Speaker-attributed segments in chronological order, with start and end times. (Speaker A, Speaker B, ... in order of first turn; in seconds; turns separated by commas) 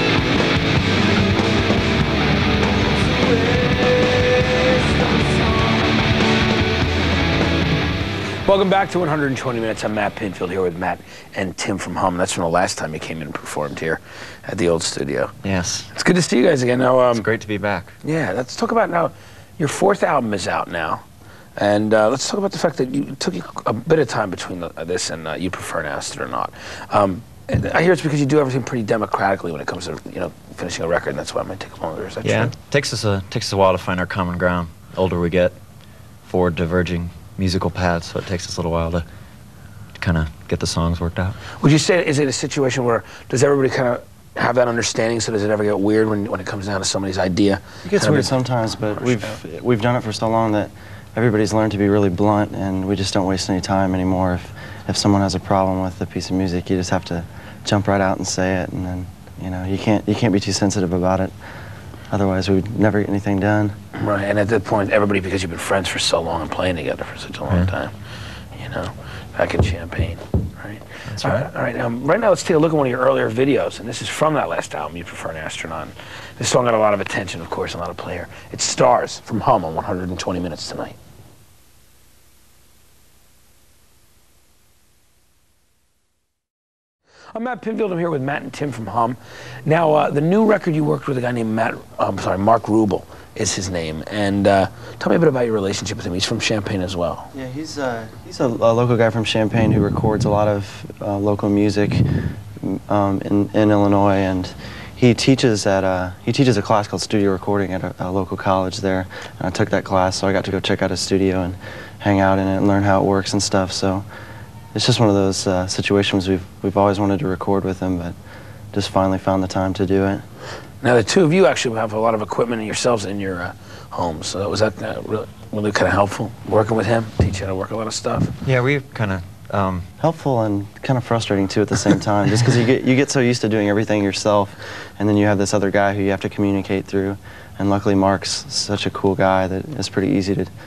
Speaker A: 3.1-5.9, Speaker A: 8.4-15.4, Speaker B: 15.4-15.9, Speaker A: 15.9-17.3, Speaker B: 17.1-18.0, Speaker A: 18.0-21.0, Speaker A: 21.6-32.5, Speaker B: 32.2-35.5, Speaker B: 36.3-39.1, Speaker B: 40.0-41.4, Speaker A: 41.6-48.4, Speaker C: 47.8-61.3, Speaker A: 49.0-49.3, Speaker C: 62.1-63.7, Speaker A: 64.0-68.0, Speaker A: 68.5-81.0, Speaker B: 71.1-71.5, Speaker A: 87.3-97.3, Speaker C: 97.3-102.1, Speaker C: 102.6-114.1, Speaker C: 114.7-118.2, Speaker C: 118.7-120.2, Speaker A: 120.8-128.3, Speaker B: 128.4-129.9, Speaker C: 130.0-140.5